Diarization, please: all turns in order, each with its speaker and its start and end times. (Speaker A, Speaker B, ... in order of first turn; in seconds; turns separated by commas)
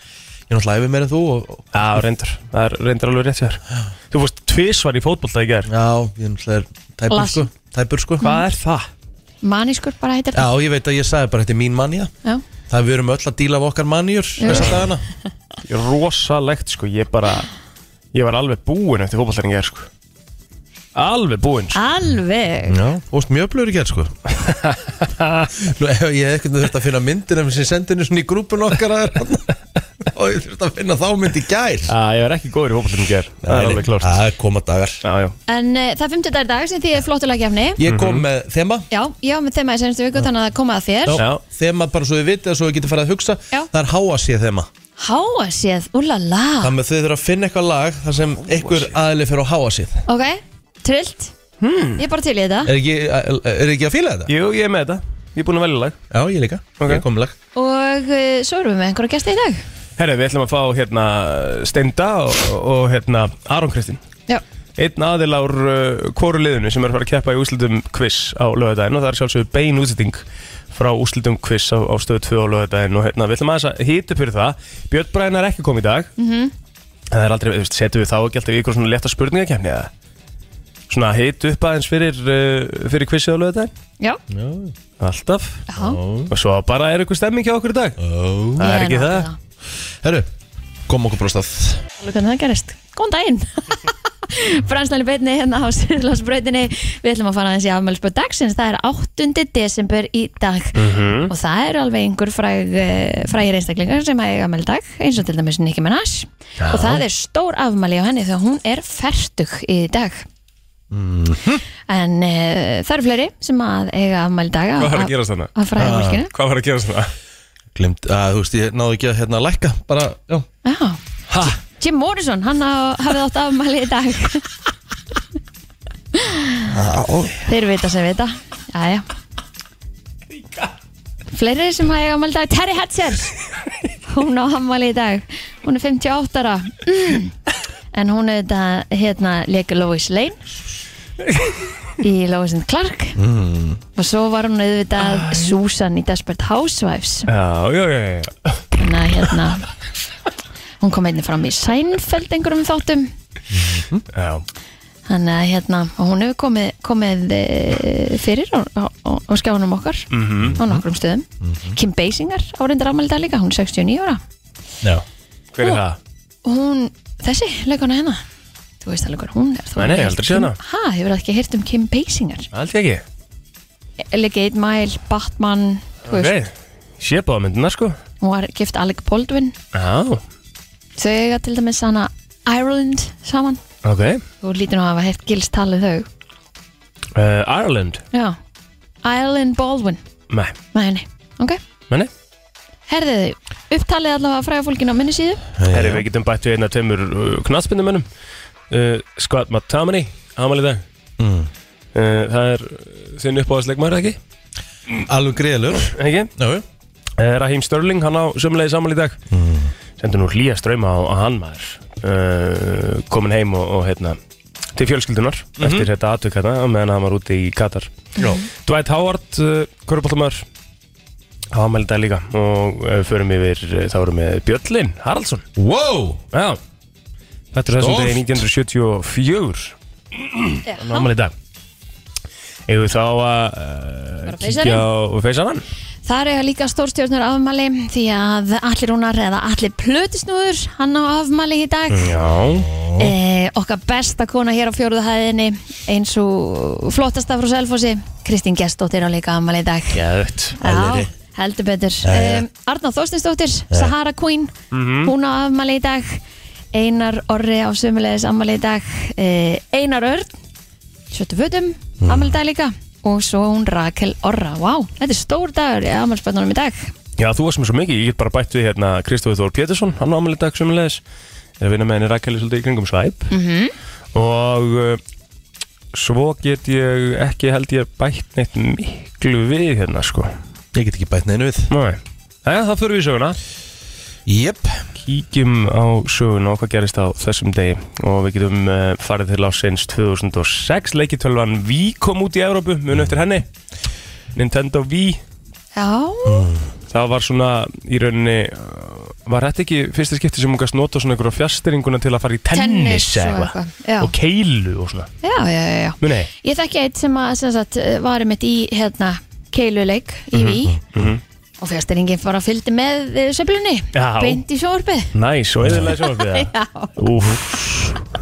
Speaker A: 0.5-1.8, Speaker B: 1.7-5.7, Speaker A: 5.7-8.3, Speaker C: 7.1-7.5, Speaker B: 8.2-8.9, Speaker C: 9.4-10.5, Speaker A: 10.3-12.1, Speaker A: 12.7-15.0, Speaker C: 14.4-14.8, Speaker B: 14.5-14.7, Speaker B: 15.7-17.5, Speaker B: 18.1-19.9, Speaker B: 20.9-21.8, Speaker C: 21.7-22.8, Speaker A: 22.7-24.2, Speaker B: 24.6-25.5, Speaker A: 25.6-29.5, Speaker A: 30.1-31.9, Speaker B: 31.9-34.2, Speaker A: 33.4-35.0, Speaker B: 35.0-35.3, Speaker C: 35.5-37.8, Speaker A: 37.8-38.9, Speaker B: 37.9-38.2, Speaker C: 38.9-41.2, Speaker A: 41.0-44.7, Speaker B: 41.1-41.4, Speaker C: 45.0-46.7, Speaker A: 46.6-50.0, Speaker B: 48.5-48.9, Speaker C: 50.1-51.3, Speaker B: 51.6-52.0, Speaker C: 52.0-52.7, Speaker A: 52.6-54.3, Speaker B: 54.3-56.0, Speaker A: 56.1-57.3, Speaker B: 56.8-57.0, Speaker C: 57.5-59.6, Speaker B: 60.0-64.0, Speaker B: 64.8-76.1, Speaker C: 76.2-76.5, Speaker B: 77.1-79.9, Speaker B: 80.9-83.7, Speaker A: 84.3-84.7, Speaker B: 85.0-85.6, Speaker C: 85.7-86.0, Speaker A: 85.8-86.3, Speaker B: 86.3-88.0, Speaker A: 88.0-88.7, Speaker B: 88.6-89.3, Speaker C: 88.6-89.3, Speaker A: 90.0-90.3, Speaker A: 90.9-91.8, Speaker C: 92.0-110.2, Speaker B: 100.7-101.3, Speaker B: 106.6-107.0, Speaker A: 110.9-111.6, Speaker C: 111.9-116.3, Speaker B: 114.8-117.1, Speaker A: 115.8-116.2, Speaker A: 117.7-120.5, Speaker C: 120.6-121.0, Speaker B: 121.3-121.6, Speaker C: 121.8-124.5, Speaker C: 126.1-126.7, Speaker A: 126.7-127.4, Speaker C: 127.4-129.1, Speaker C: 131.3-133.3, Speaker C: 134.1-137.3, Speaker C: 137.9-140.4, Speaker C: 142.0-143.2, Speaker A: 143.2-143.8, Speaker C: 143.9-147.3, Speaker B: 147.3-148.6, Speaker C: 148.8-149.6, Speaker C: 150.8-153.1, Speaker A: 153.5-154.0, Speaker B: 154.1-154.4, Speaker C: 155.1-164.2, Speaker B: 160.1-160.6, Speaker A: 160.4-160.8, Speaker A: 161.4-161.8, Speaker B: 165.5-166.0, Speaker C: 166.4-168.2, Speaker C: 168.8-172.5, Speaker B: 169.8-170.6, Speaker B: 172.5-173.0, Speaker C: 174.1-176.3, Speaker B: 176.1-178.0, Speaker C: 178.2-179.6, Speaker B: 179.7-180.2, Speaker C: 181.0-183.6, Speaker B: 183.8-184.2, Speaker C: 184.4-186.1, Speaker B: 187.1-188.0, Speaker C: 189.0-190.0, Speaker C: 190.7-191.6, Speaker C: 192.9-195.4, Speaker A: 195.6-196.0, Speaker B: 195.7-198.1, Speaker B: 198.7-200.8, Speaker A: 201.2-201.5, Speaker B: 201.9-204.2, Speaker A: 205.1-206.6, Speaker B: 205.8-206.3, Speaker B: 207.2-209.2, Speaker A: 209.3-209.7, Speaker B: 210.0-214.2, Speaker B: 214.7-217.9, Speaker A: 215.6-215.9, Speaker A: 218.2-218.4, Speaker C: 218.2-218.4, Speaker B: 218.6-220.4, Speaker B: 221.5-225.4, Speaker A: 225.6-226.2, Speaker B: 226.3-226.6, Speaker B: 227.5-231.3, Speaker A: 227.7-228.4, Speaker C: 230.7-231.1, Speaker B: 232.7-235.6, Speaker C: 234.2-234.8, Speaker C: 236.0-242.1, Speaker A: 241.9-243.1, Speaker B: 242.0-242.7, Speaker C: 243.0-250.0, Speaker B: 249.9-250.6, Speaker A: 250.6-251.1, Speaker C: 250.6-256.2, Speaker A: 252.0-252.4, Speaker B: 254.7-255.1, Speaker C: 256.7-260.3, Speaker C: 261.1-266.9, Speaker A: 262.0-262.4, Speaker B: 267.2-271.0, Speaker B: 271.6-273.3, Speaker C: 273.3-273.7, Speaker B: 274.1-275.0, Speaker B: 275.9-280.3, Speaker A: 280.7-281.7, Speaker B: 281.7-283.4, Speaker A: 284.2-284.8, Speaker B: 285.0-293.4, Speaker B: 294.3-295.2, Speaker C: 295.7-296.5, Speaker A: 296.3-296.6, Speaker B: 296.9-305.1, Speaker C: 302.5-304.1, Speaker C: 305.2-310.8, Speaker B: 306.0-306.3, Speaker B: 310.4-311.2, Speaker A: 310.7-311.1, Speaker C: 311.6-315.1, Speaker B: 313.9-314.4, Speaker B: 315.1-318.0, Speaker A: 315.6-315.9, Speaker C: 315.8-316.9